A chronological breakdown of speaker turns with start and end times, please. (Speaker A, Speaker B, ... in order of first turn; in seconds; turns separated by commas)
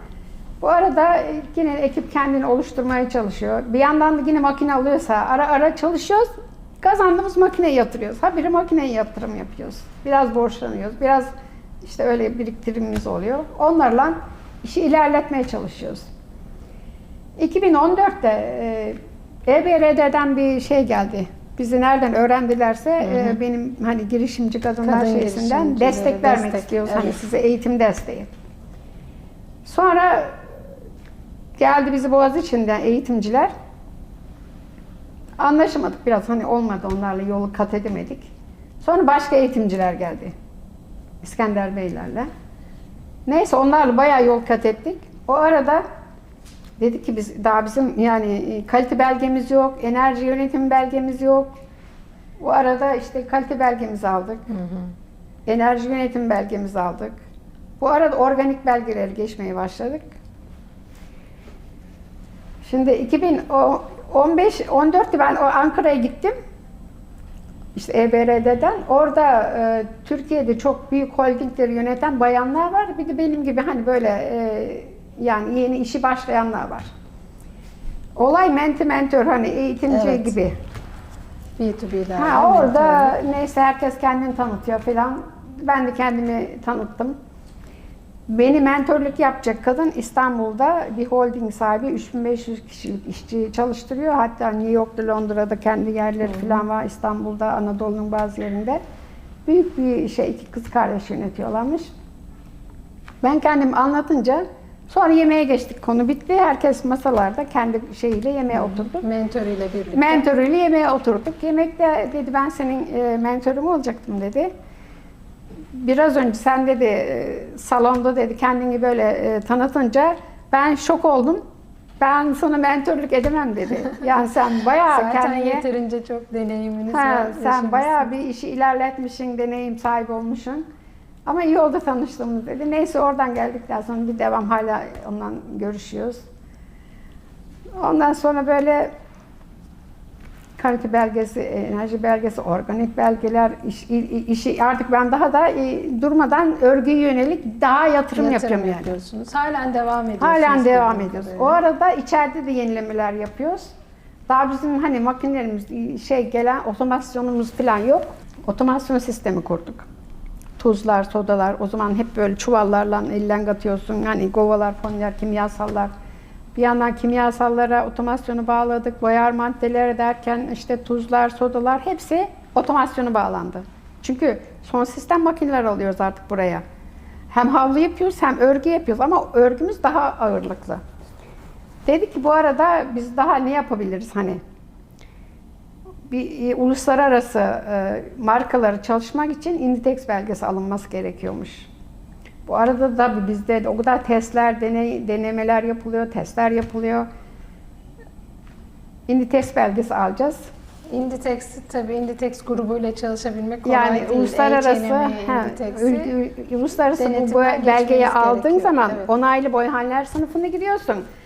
Speaker A: 0.6-6.3, Speaker A: 6.8-11.3, Speaker A: 11.8-16.1, Speaker A: 17.4-28.3, Speaker B: 23.0-23.4, Speaker B: 24.8-27.2, Speaker A: 29.6-30.4, Speaker A: 31.6-33.5, Speaker A: 35.4-38.3, Speaker A: 38.8-40.3, Speaker A: 41.2-42.3, Speaker A: 43.2-45.8, Speaker A: 46.8-51.5, Speaker A: 52.4-54.4, Speaker A: 55.5-57.2, Speaker A: 57.8-60.1, Speaker A: 62.6-66.3, Speaker A: 67.7-76.9, Speaker A: 78.2-80.6, Speaker B: 79.9-80.3, Speaker B: 81.6-83.2, Speaker A: 82.2-87.2, Speaker A: 88.3-98.8, Speaker A: 99.5-101.9, Speaker A: 103.2-109.1, Speaker B: 108.5-110.2, Speaker A: 109.9-114.5, Speaker A: 115.7-121.4, Speaker A: 122.0-125.6, Speaker B: 124.9-128.1, Speaker A: 126.9-130.6, Speaker A: 131.2-136.2, Speaker A: 137.8-138.9, Speaker A: 140.6-148.9, Speaker B: 148.2-151.6, Speaker A: 150.2-153.7, Speaker A: 154.3-159.9, Speaker A: 160.6-165.9, Speaker A: 166.6-176.6, Speaker A: 177.3-180.8, Speaker A: 181.9-184.4, Speaker A: 186.1-191.7, Speaker A: 192.4-197.1, Speaker A: 199.1-200.5, Speaker B: 200.9-206.1, Speaker A: 203.6-211.0, Speaker B: 206.9-209.1